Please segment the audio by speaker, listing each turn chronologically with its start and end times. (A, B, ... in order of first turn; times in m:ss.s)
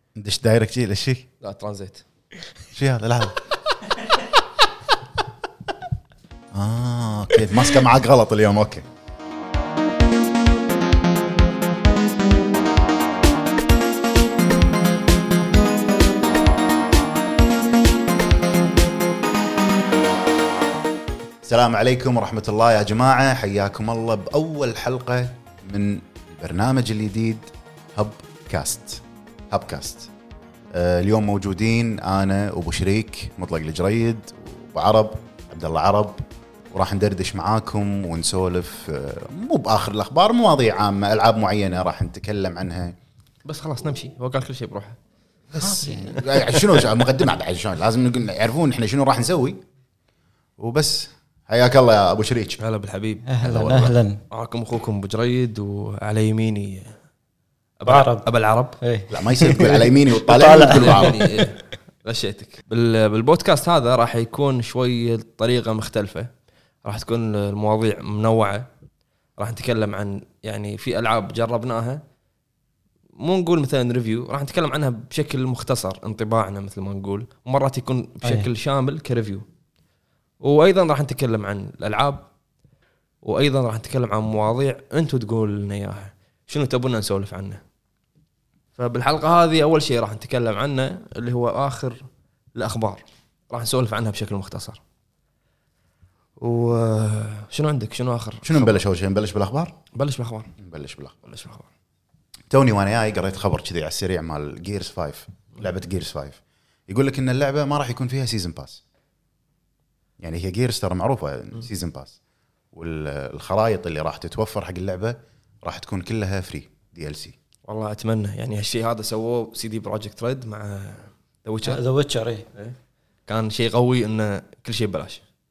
0:00.2-0:01.2 A
0:01.4-0:02.0 B
0:02.7-0:03.4 A
0:06.5-0:08.8 A
0:21.4-0:30.1 A
0:30.7-0:43.0 A
0:43.4-0:45.0 B
0:45.5-0:49.6 A
0:45.6-0:46.2 C
0:46.2-0:46.9 B
0:50.6-0:52.6 A
0:52.6-0:53.4 B
0:53.3-0:54.2 C
0:53.4-0:53.9 A
0:54.3-0:57.0 B
0:57.8-0:58.8 B
0:57.8-0:58.3 C
0:58.8-1:01.5 C
0:59.1-1:01.2 A
1:00.7-1:06.3 B
1:06.8-1:08.7 B
1:09.4-1:12.0 B
1:13.2-1:19.4 B
1:18.2-1:18.5 C
1:20.4-1:22.2 B
1:23.2-1:27.6 B
1:28.8-1:32.0 B
1:32.5-1:34.8 B
1:36.4-1:38.8 B
1:38.4-1:39.8 A
1:39.9-1:40.5 B
1:40.6-1:41.2 A
1:41.2-1:41.7 B
1:42.5-1:48.8 A
1:50.2-1:52.2 A
1:52.7-1:57.4 A
1:57.6-2:01.8 B
2:01.6-2:02.5 C
2:03.3-2:05.2 B